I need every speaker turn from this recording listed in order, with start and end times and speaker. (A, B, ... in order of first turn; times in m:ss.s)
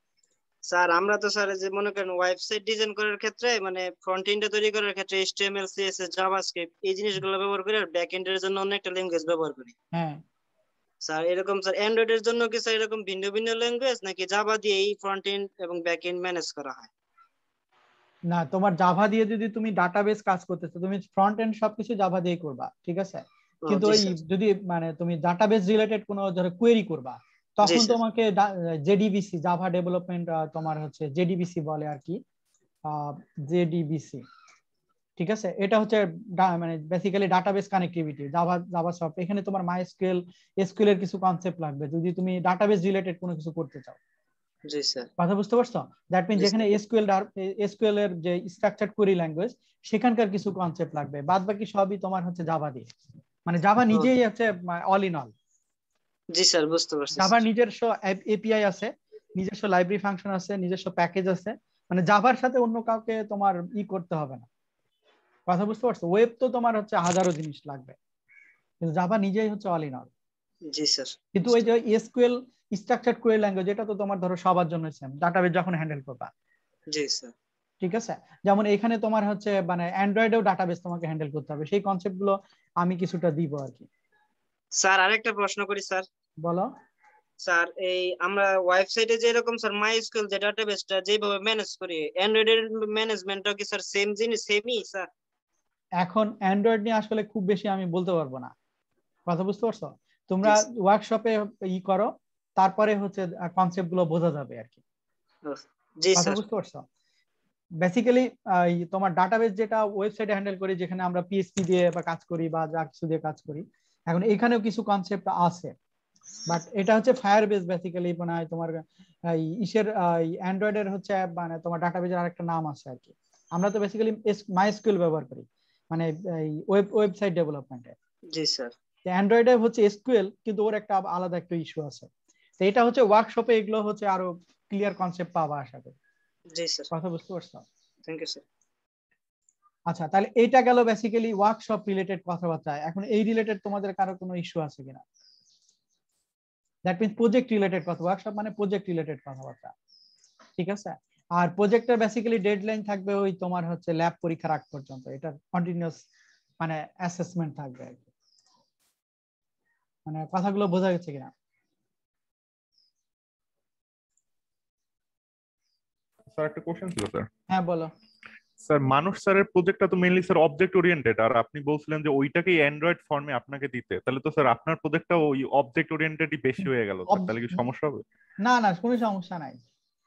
0:00.7-0:09.7 A
0:09.9-0:10.2 B
0:11.0-0:16.9 A
0:18.3-0:32.2 B
0:23.6-0:24.2 A
0:27.6-0:28.0 A
0:32.9-0:34.2 B
0:35.2-0:44.0 B
0:44.6-0:45.1 A
0:45.2-0:52.9 B
0:46.4-0:46.7 A
0:53.4-0:55.3 B
0:56.3-0:57.4 A
0:57.2-1:04.5 B
1:05.5-1:08.0 B
1:08.8-1:10.1 B
1:10.6-1:11.6 A
1:11.3-1:16.3 B
1:16.9-1:17.3 A
1:17.8-1:23.9 B
1:24.8-1:26.0 A
1:26.4-1:26.7 B
1:27.4-1:35.1 A
1:36.0-1:38.5 B
1:39.3-1:44.8 B
1:45.4-1:46.4 A
1:46.2-1:46.8 B
1:47.8-1:55.7 B
1:56.5-2:07.9 B
2:08.3-2:08.7 A
2:09.0-2:12.1 B
2:12.6-2:16.0 B
2:16.5-2:16.9 A
2:16.9-2:17.6 B
2:18.1-2:18.4 A
2:19.9-2:25.0 B
2:26.8-2:29.7 B
2:30.6-2:36.0 B
2:36.6-2:38.1 B
2:40.0-2:41.3 B
2:46.3-2:47.3 C
2:47.5-2:47.9 B
2:48.6-2:58.0 C
2:57.1-2:57.6 B
2:58.4-2:59.6 B